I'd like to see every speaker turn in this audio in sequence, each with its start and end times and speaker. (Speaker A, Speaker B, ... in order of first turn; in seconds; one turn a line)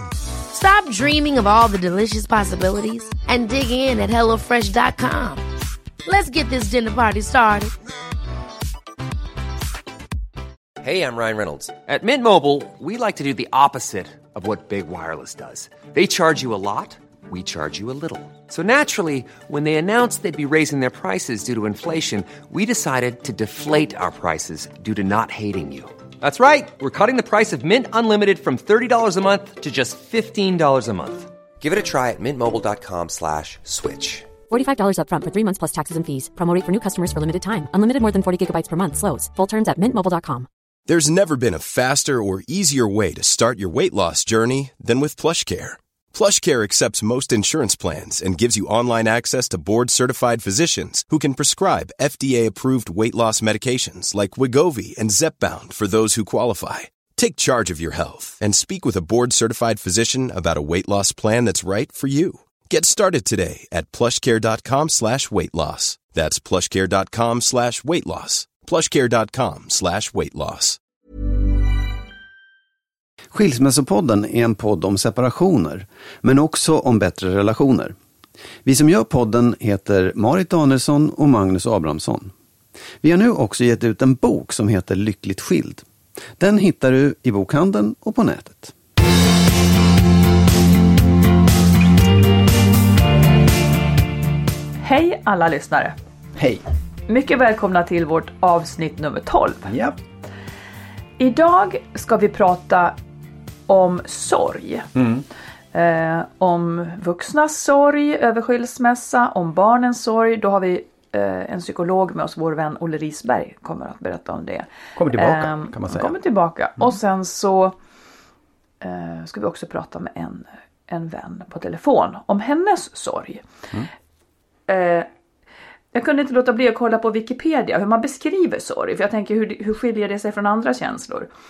Speaker A: 0.5-5.4
Speaker A: 6.0-7.7
Speaker B: 10.8-34.3
Speaker C: 34.5-40.5
Speaker D: 40.9-70.8
Speaker E: 73.3-78.0
Speaker E: 78.6-82.3
Speaker E: 83.0-85.9
Speaker E: 86.4-88.8
Speaker F: 94.8-96.0
Speaker E: 96.4-96.6
Speaker F: 97.1-99.7
Speaker E: 99.7-100.0
Speaker F: 101.2-103.0
Speaker F: 103.7-104.9
Speaker E: 105.0-105.2
Speaker F: 105.7-117.8
Speaker E: 115.0-116.2
Speaker F: 118.8-123.5
Speaker F: 124.7-125.1
Speaker F: 125.9-131.3